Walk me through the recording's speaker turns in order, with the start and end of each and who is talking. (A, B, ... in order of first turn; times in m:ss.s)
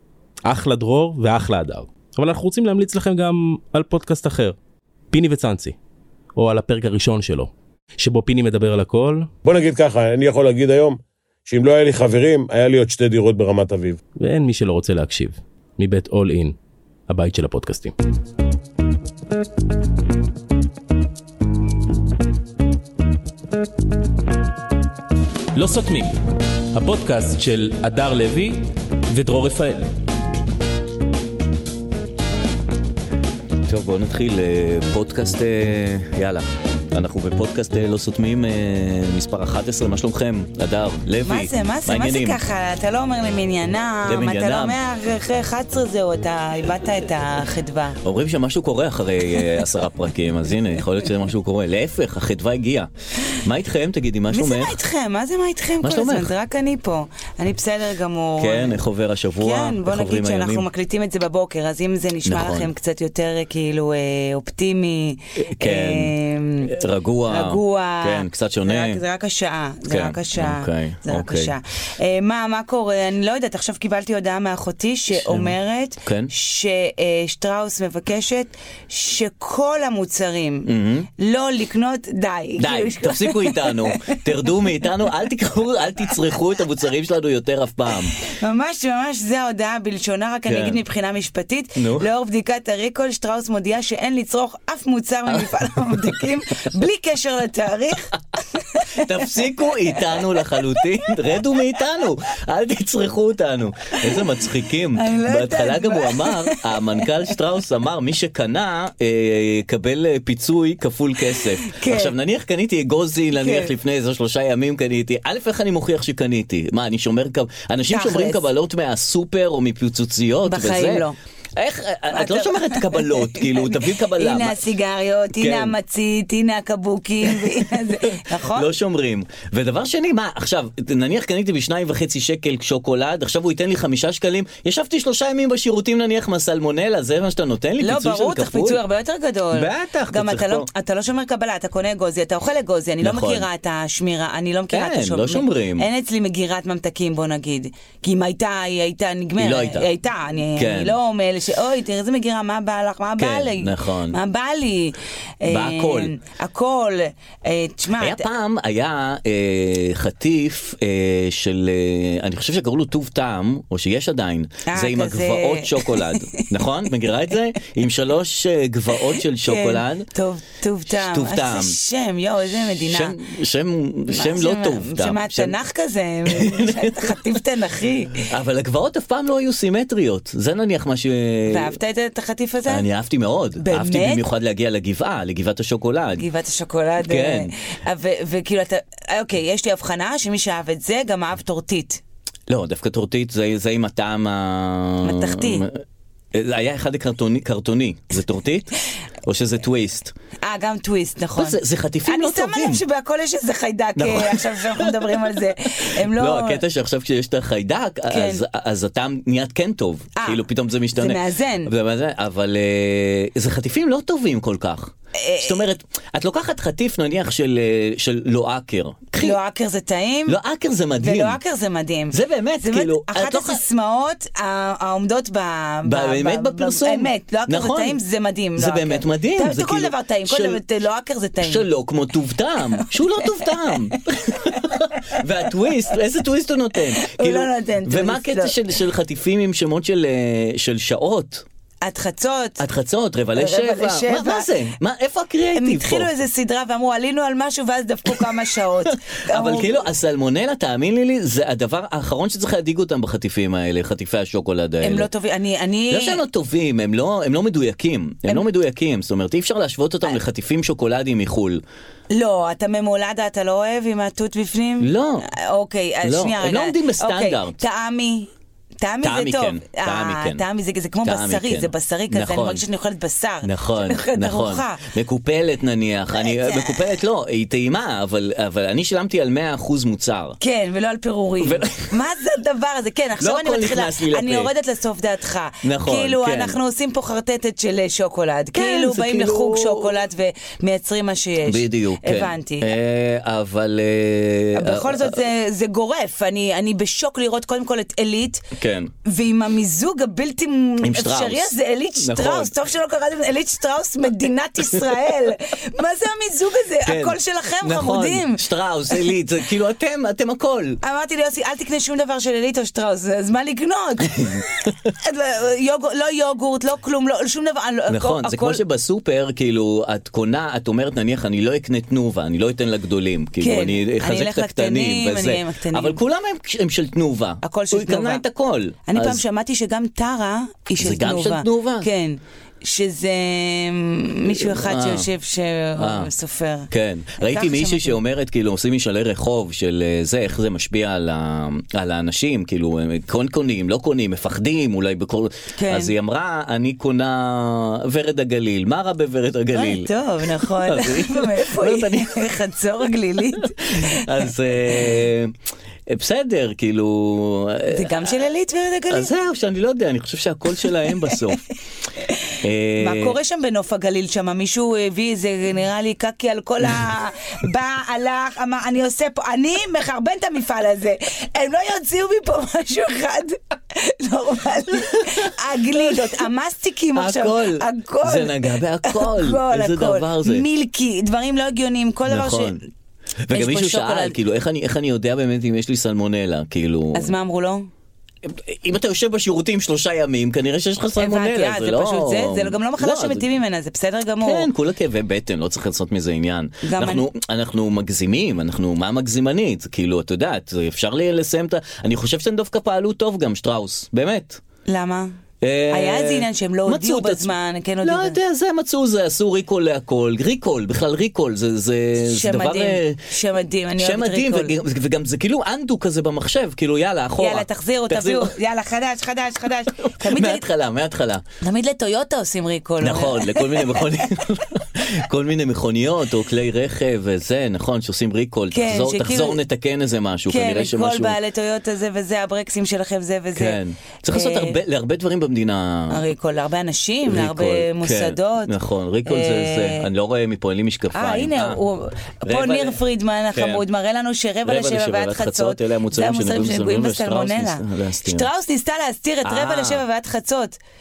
0:00.5-0:04.6 A
0:05.1-0:05.8 A
0:06.4-0:09.3 A
0:09.4-0:14.0 B
0:14.2-0:16.6 A
0:17.1-0:18.0 A
0:25.6-0:26.2 A
0:26.7-0:29.9 A
0:33.7-0:42.4 C
0:41.2-0:48.0 D
0:44.1-0:44.8 C
0:48.0-0:54.8 C
0:54.3-0:58.8 D
0:55.8-0:56.3 C
0:58.4-1:00.7 C
0:59.4-1:06.7 D
1:02.2-1:02.7 C
1:05.4-1:09.0 C
1:07.3-1:24.2 D
1:09.9-1:11.6 C
1:15.1-1:16.3 C
1:20.7-1:21.1 C
1:22.6-1:28.2 C
1:28.2-1:38.1 D
1:30.5-1:30.8 C
1:31.8-1:32.1 C
1:38.8-1:39.2 D
1:38.9-2:01.0 C
1:45.0-1:47.1 D
1:51.6-1:52.1 D
1:53.3-1:53.7 D
1:57.9-1:58.5 D
2:00.5-2:01.2 D
2:01.6-2:04.6 C
2:02.1-2:08.7 D
2:05.4-2:05.8 C
2:07.2-2:18.8 C
2:17.8-2:38.3 D
2:19.5-2:20.7 C
2:23.0-2:23.5 C
2:24.7-2:25.9 C
2:29.4-2:29.9 C
2:30.5-2:31.0 C
2:33.2-2:34.2 C
2:35.5-2:36.1 C
2:38.0-2:50.1 C
2:44.7-2:46.4 D
2:49.4-2:53.2 D
2:51.0-2:51.8 C
2:52.8-2:55.6 C
2:54.1-2:58.3 D
2:56.3-2:57.2 C
2:58.3-3:01.8 C
3:01.5-3:02.8 D
3:02.7-3:06.2 C
3:03.6-3:04.2 D
3:06.2-3:12.0 D
3:07.0-3:07.5 C
3:12.5-3:15.8 C
3:15.0-3:15.7 D
3:16.3-3:18.7 C
3:19.2-3:20.1 C
3:20.4-3:26.6 D
3:21.4-3:22.8 C
3:24.0-3:25.3 C
3:25.9-3:39.4 C
3:28.1-3:28.4 D
3:30.2-3:30.4 D
3:31.0-3:31.7 D
3:35.2-3:35.6 D
3:39.2-3:40.4 D
3:40.3-3:41.4 C
3:41.0-3:51.7 D
3:42.1-3:43.6 C
3:45.9-3:48.0 C
3:48.6-3:50.6 C
3:51.4-4:01.4 C
3:53.2-3:53.5 D
3:57.0-3:58.5 D
4:01.8-4:02.6 D
4:02.6-4:06.1 C
4:03.4-4:04.5 D
4:05.6-4:09.9 D
4:08.2-4:15.1 C
4:14.8-4:16.2 D
4:15.9-4:21.6 C
4:22.1-4:28.3 D
4:24.8-4:25.3 C
4:26.0-4:27.6 C
4:28.8-4:34.8 D
4:29.0-4:30.4 C
4:31.0-4:32.6 C
4:33.4-4:40.4 C
4:36.2-4:36.8 D
4:40.4-4:52.7 D
4:41.4-4:41.9 C
4:43.2-4:44.5 C
4:45.6-4:46.6 C
4:48.5-4:50.0 C
4:51.5-4:55.2 C
4:54.6-4:58.4 D
4:58.6-4:58.9 C
4:59.0-5:09.1 D
5:00.8-5:02.5 C
5:06.8-5:10.8 C
5:10.8-5:18.6 D
5:17.9-5:29.2 C
5:23.4-5:26.0 D
5:27.4-5:28.2 D
5:28.9-5:38.0 D
5:30.8-5:31.9 C
5:34.3-5:35.1 C
5:35.8-5:36.1 C
5:36.7-5:52.3 C
5:45.6-5:45.9 D
5:49.5-5:54.0 D
5:53.4-5:55.4 C
5:55.9-5:58.2 C
5:57.7-5:59.1 D
5:58.9-6:01.4 C
6:00.9-6:01.2 D
6:02.4-6:03.2 C
6:02.8-6:22.6 D
6:14.8-6:16.3 C
6:16.9-6:20.4 C
6:22.1-6:22.6 C
6:23.2-6:27.1 C
6:23.3-6:24.2 D
6:26.9-6:27.7 D
6:28.2-6:33.3 C
6:31.0-6:34.5 D
6:34.2-6:44.4 C
6:36.6-6:37.1 D
6:44.7-6:45.2 D
6:45.4-6:53.0 C
6:45.7-6:48.2 D
6:52.0-6:54.6 D
6:53.8-6:58.4 C
6:57.2-7:00.5 D
6:59.8-7:01.2 C
7:01.4-7:04.0 D
7:02.8-7:11.2 C
7:08.5-7:09.4 D
7:10.3-7:13.6 D
7:13.4-7:16.0 C
7:14.1-7:14.6 D
7:15.9-7:18.5 D
7:17.0-7:21.6 C
7:19.0-7:19.9 D
7:20.9-7:30.6 D
7:22.2-7:22.8 C
7:23.4-7:23.6 C
7:24.4-7:28.3 C
7:29.2-7:29.8 C